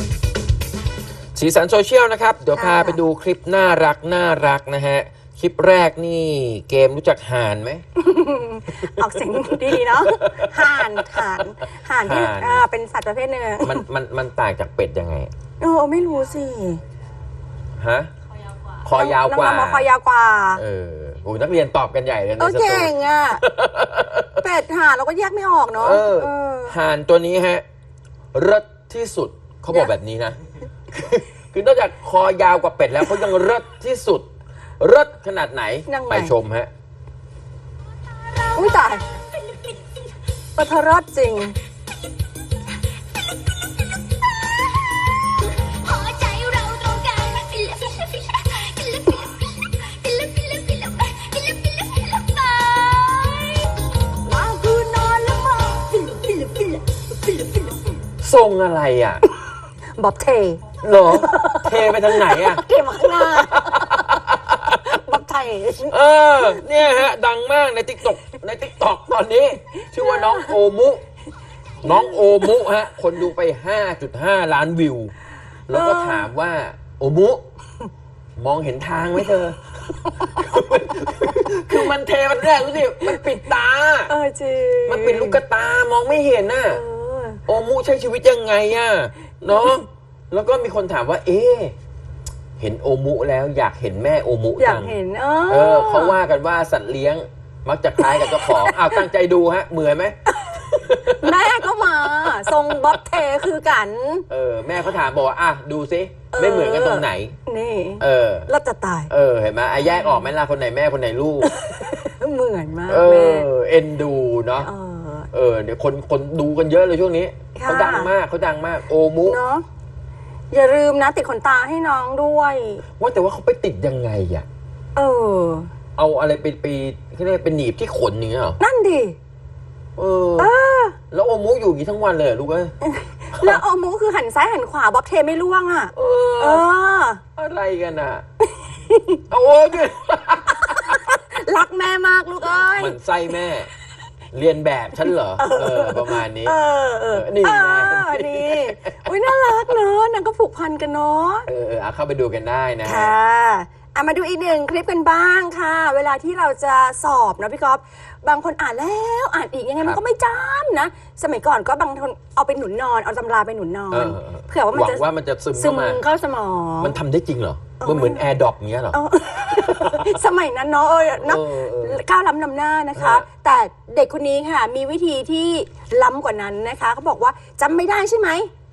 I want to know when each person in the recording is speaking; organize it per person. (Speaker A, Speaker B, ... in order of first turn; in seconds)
Speaker A: 1.4-7.8, 9.7-11.4, 12.0-12.6, 13.6-15.3, 17.8-18.1, 18.8-19.9, 20.6-24.4, 25.8-27.6, 28.3-30.4, 30.9-34.3, 34.8-36.7, 58.2-59.2, 60.8-62.6, 63.3-65.0, 65.9-71.0, 71.8-75.2, 75.7-77.5, 78.4-84.1, 84.9-86.8, 87.5-91.8, 92.6-95.0, 95.5-100.2, 100.8-101.5, 104.3-107.4, 108.0-108.5, 109.1-111.5, 112.9-114.7, 115.3-119.4, 123.0-124.5, 126.0-128.6, 130.0-130.5, 131.1-132.7, 133.4-133.6, 135.9-136.7, 137.4-138.2, 139.3-141.0, 142.8-143.7, 144.3-146.6, 147.1-148.9, 151.5-153.2, 163.9-166.0, 166.8-170.2, 171.2-172.0, 172.9-173.2
Speaker B: 2.5-3.0, 8.0-13.8, 15.6-16.8, 18.9-20.6, 22.4-23.4, 24.4-26.8, 35.9-36.3, 38.5-39.1, 40.6-41.6, 54.2-57.8, 60.0-64.0, 64.7-66.6, 70.1-70.5, 71.8-72.3, 75.7-76.3, 84.1-85.4, 86.7-87.4, 94.6-96.2, 98.0-99.0, 100.4-104.3, 106.3-109.1, 109.9-110.2, 111.4-113.5, 114.6-115.3, 117.5-118.1, 119.3-119.7, 120.5-122.8, 125.0-125.7, 128.6-129.2, 130.4-131.0, 132.8-137.2, 138.6-139.2, 140.6-143.0, 145.4-151.5, 152.8-167.0, 167.8-168.2, 168.9-178.5
Speaker C: 43.8-44.9, 45.7-53.8